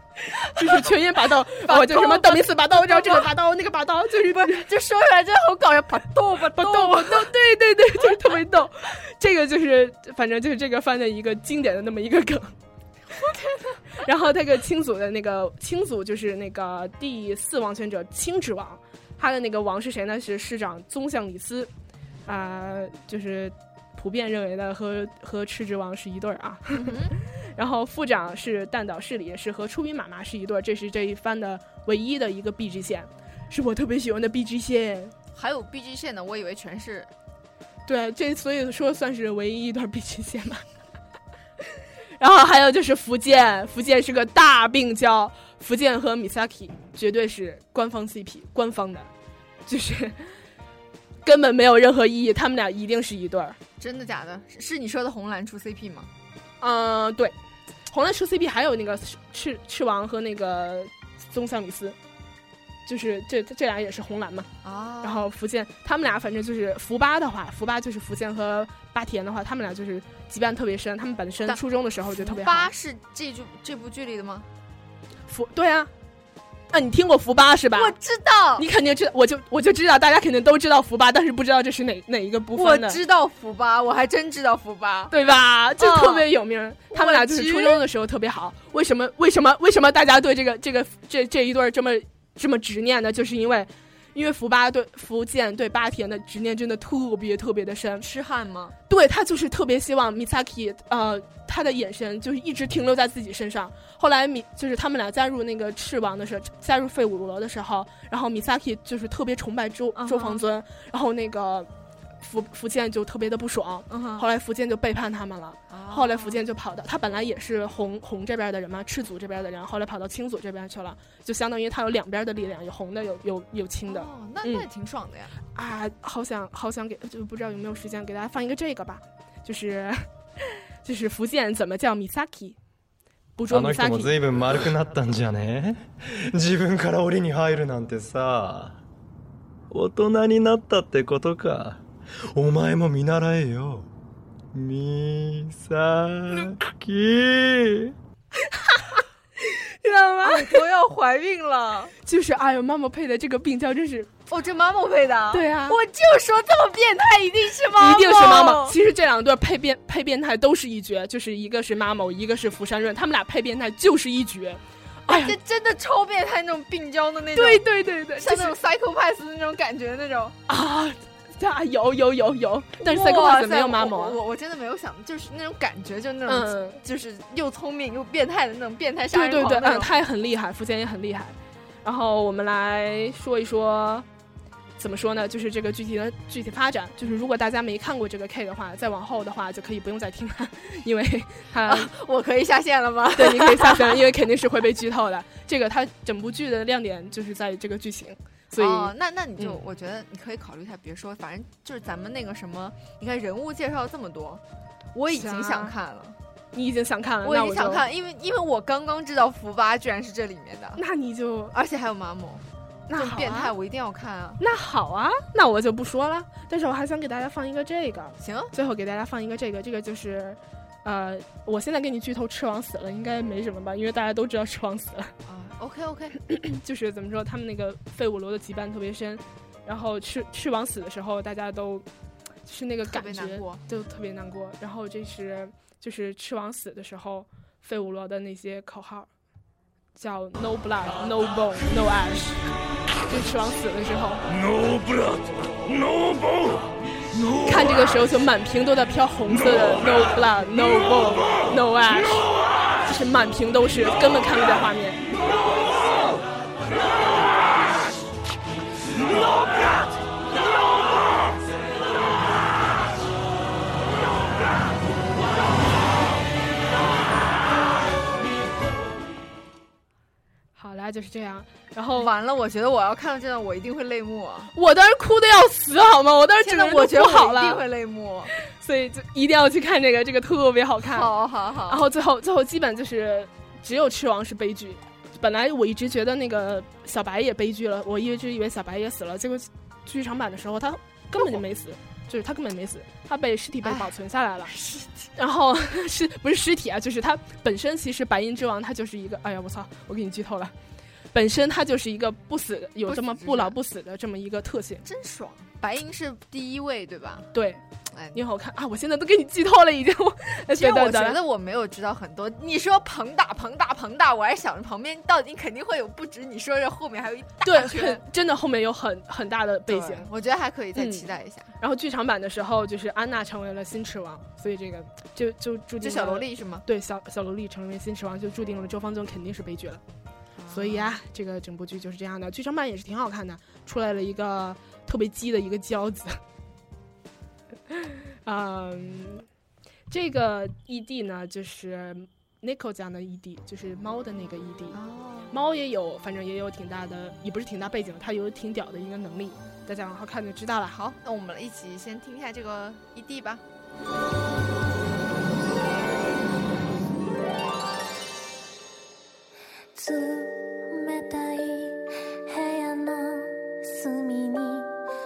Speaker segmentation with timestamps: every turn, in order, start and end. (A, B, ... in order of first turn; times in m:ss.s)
0:00.6-0:04.7 A
0:00.6-0:00.9 B
0:01.6-0:03.3 B
0:04.3-0:07.3 B
0:06.6-0:12.5 A
0:13.2-0:13.8 B
0:14.0-0:21.7 A
0:22.3-0:26.9 A
0:26.7-0:27.2 B
0:27.6-0:35.1 A
0:35.3-0:37.1 B
0:37.9-0:40.6 A
0:42.2-0:49.1 A
0:49.7-0:50.2 A
0:51.2-0:53.6 A
0:53.8-0:56.1 B
0:56.6-0:57.3 A
0:57.9-1:02.0 A
1:02.9-1:04.5 A
1:04.6-1:05.3 B
1:05.0-1:12.7 A
1:11.5-1:14.5 B
1:15.3-1:15.9 A
1:16.7-1:17.9 A
1:17.7-1:18.7 B
1:18.6-1:23.0 A
1:22.6-1:25.1 B
1:25.1-1:38.0 A
1:25.8-1:26.3 B
1:26.9-1:27.8 B
1:38.0-1:38.8 B
1:38.9-1:51.7 A
1:50.0-1:50.4 B
1:52.2-2:04.7 A
1:53.9-1:54.2 B
1:55.7-1:56.4 B
2:03.9-2:05.4 B
2:05.6-2:10.0 A
2:10.8-2:12.6 A
2:13.4-2:14.2 A
2:13.5-2:18.8 C
2:19.7-2:23.9 C
2:24.5-2:27.9 C
2:28.7-2:30.6 A
2:30.2-2:31.9 B
2:32.1-2:34.1 A
2:34.3-2:38.8 B
2:35.3-2:35.8 A
2:37.8-2:45.4 A
2:45.1-2:47.7 B
2:47.4-2:48.6 A
2:48.2-2:50.4 B
2:50.5-2:54.2 A
2:52.8-3:00.0 B
2:56.3-2:56.8 A
2:59.1-3:04.1 A
3:04.8-3:11.9 A
3:11.7-3:14.1 B
3:13.2-3:19.6 A
3:18.6-3:24.4 B
3:24.9-3:26.2 B
3:25.1-3:25.7 A
3:26.5-3:27.8 A
3:27.2-3:30.8 B
3:30.8-3:31.5 A
3:31.5-3:34.4 B
3:32.9-3:33.5 A
3:34.4-3:45.1 A
3:38.2-3:38.5 B
3:45.2-3:46.2 B
3:46.3-3:51.8 A
3:52.5-3:59.1 A
3:52.9-3:53.6 B
4:00.0-4:02.4 A
4:03.1-4:04.2 A
4:07.4-4:12.3 A
4:12.9-4:15.0 A
4:30.6-4:32.1 A
4:32.0-4:34.5 B
4:34.6-4:37.6 A
4:36.4-4:38.3 B
4:38.5-4:41.1 A
4:40.8-4:41.8 B
4:41.7-4:54.5 A
4:53.6-4:53.9 B
4:54.5-4:55.1 B
4:55.2-5:00.5 A
5:01.1-5:04.8 A
5:02.9-5:03.6 B
5:04.8-5:07.3 B
5:07.3-5:07.6 A
5:07.9-5:08.2 B
5:08.1-5:11.2 A
5:10.5-5:18.0 B
5:17.4-5:20.1 A
5:19.7-5:21.5 B
5:20.8-5:21.1 A
5:21.6-5:29.8 A
5:25.8-5:26.6 B
5:30.4-5:31.0 B
5:30.5-5:36.2 A
5:37.7-5:39.3 A
5:39.9-5:44.8 A
5:44.7-5:45.4 B
5:45.3-5:50.8 A
5:50.7-5:53.4 B
5:59.8-6:04.7 D